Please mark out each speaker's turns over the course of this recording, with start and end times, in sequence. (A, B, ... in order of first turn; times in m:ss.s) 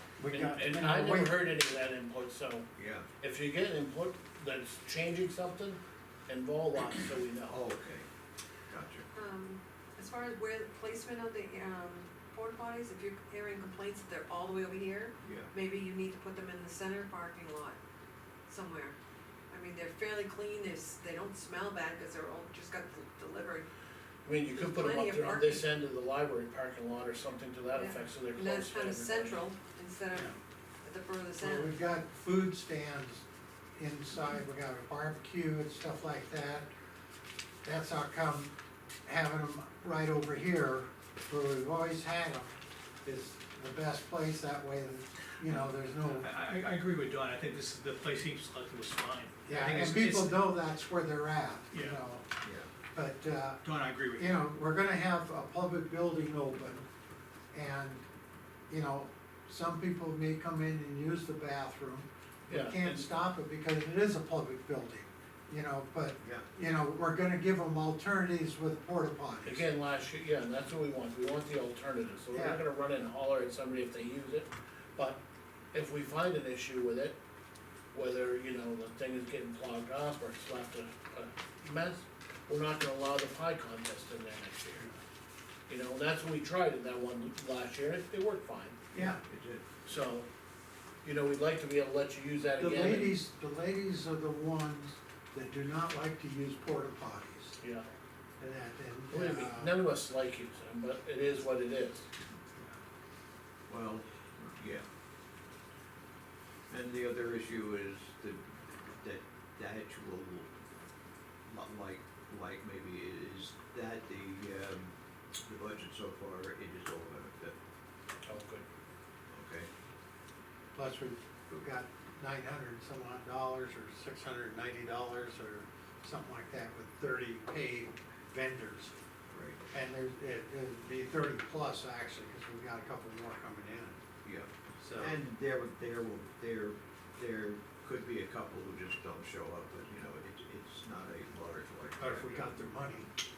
0:00.2-0:01.4 A
0:00.3-0:02.7 B
0:02.8-0:03.1 C
0:03.2-0:07.6 B
0:07.5-0:08.1 C
0:08.7-0:09.1 C
0:09.1-0:17.8 D
0:15.2-0:15.5 C
0:18.5-0:19.0 D
0:19.5-0:23.7 D
0:24.2-0:29.4 B
0:24.5-0:25.7 D
0:27.7-0:31.8 D
0:31.4-0:36.7 A
0:37.6-0:38.5 A
0:39.1-0:42.5 A
0:43.0-0:46.3 A
0:46.0-0:50.5 E
0:49.5-0:52.3 A
0:52.4-0:52.7 C
0:52.9-0:53.6 A
0:53.6-0:54.4 E
0:54.2-0:56.8 A
0:57.5-0:58.0 A
0:58.7-1:09.6 A
1:02.5-1:03.0 B
1:09.5-1:15.2 B
1:12.3-1:12.6 A
1:15.7-1:17.2 B
1:17.9-1:24.9 B
1:25.7-1:28.8 B
1:28.9-1:29.7 C
1:28.9-1:29.2 A
1:29.8-1:30.3 B
1:31.0-1:33.1 B
1:32.6-1:37.6 A
1:37.6-1:37.9 B
1:38.4-1:39.8 A
1:39.2-1:42.1 B
1:43.7-1:44.8 C
1:46.7-1:50.5 C
1:51.5-1:57.6 C
1:58.3-1:58.6 B
1:59.3-1:59.7 C
2:00.8-2:08.9 A
2:09.3-2:09.6 C
2:09.7-2:14.0 A
2:14.2-2:22.4 C
2:14.8-2:15.2 A
2:22.0-2:23.1 A